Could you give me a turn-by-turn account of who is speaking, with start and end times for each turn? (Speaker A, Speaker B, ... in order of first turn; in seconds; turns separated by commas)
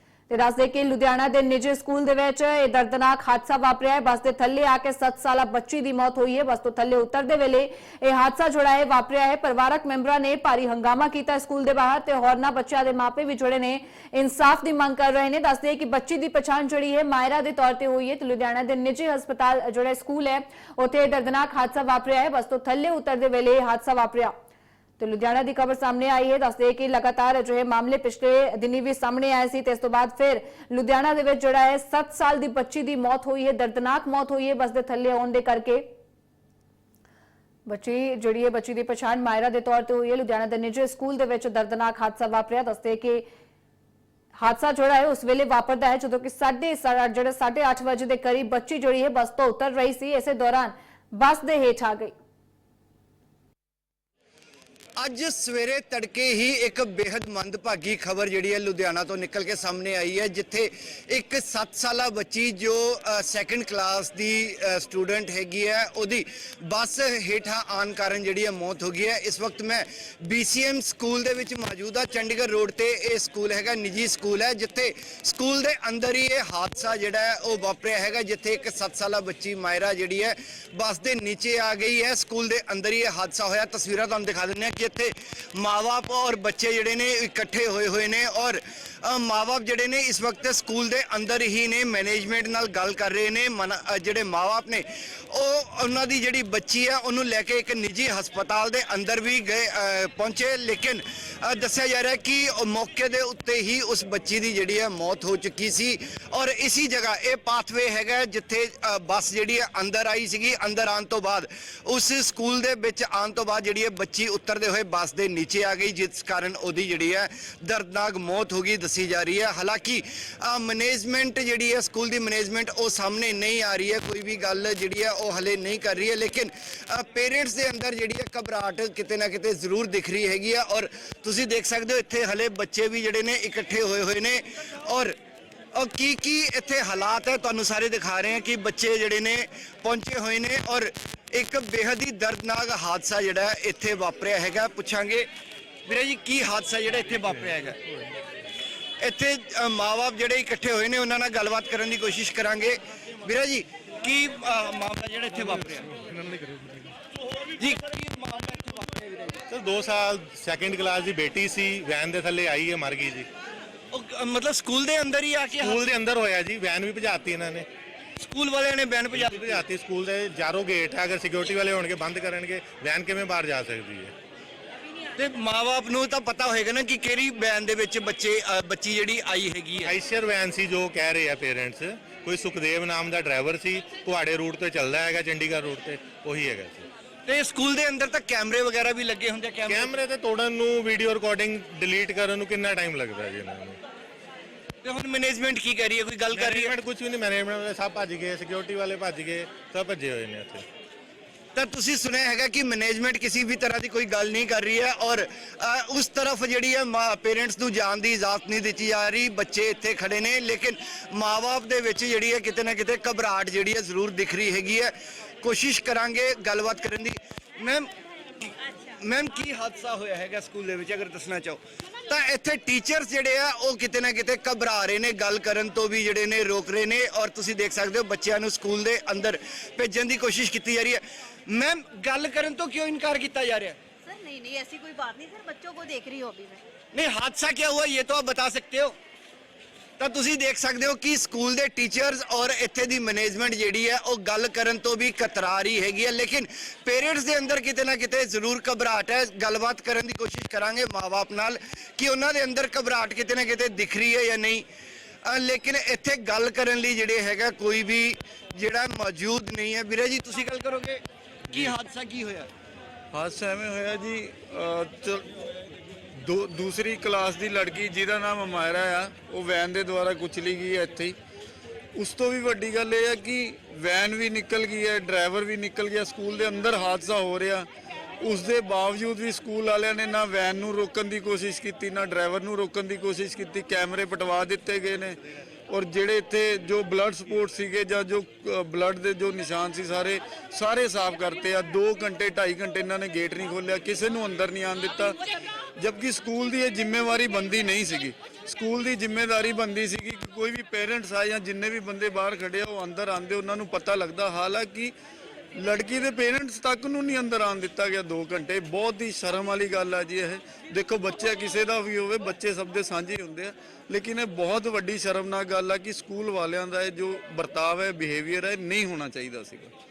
Speaker A: 0.3-24.3, Speaker A: 25.0-35.9, Speaker A: 37.7-43.2, Speaker A: 44.4-52.1, Speaker B: 55.0-135.1, Speaker B: 135.7-145.2, Speaker B: 145.8-147.8, Speaker B: 149.0-155.9, Speaker C: 156.1-156.7, Speaker B: 157.6-159.3, Speaker C: 159.5-163.3, Speaker B: 163.9-165.8, Speaker C: 165.6-167.7, Speaker B: 168.2-169.6, Speaker C: 169.1-174.1, Speaker B: 175.2-179.9, Speaker C: 179.8-186.9, Speaker B: 187.3-189.9, Speaker C: 189.7-193.8, Speaker B: 194.8-196.7, Speaker C: 196.3-200.6, Speaker B: 201.5-217.9, Speaker B: 218.4-233.8, Speaker D: 234.0-236.6, Speaker B: 236.9-238.9, Speaker B: 240.0-254.6, Speaker B: 255.2-262.5, Speaker E: 263.1-265.3, Speaker E: 266.1-271.1, Speaker E: 271.9-277.7, Speaker E: 278.2-285.2, Speaker E: 285.7-295.2, Speaker E: 295.8-304.9, Speaker E: 305.6-319.7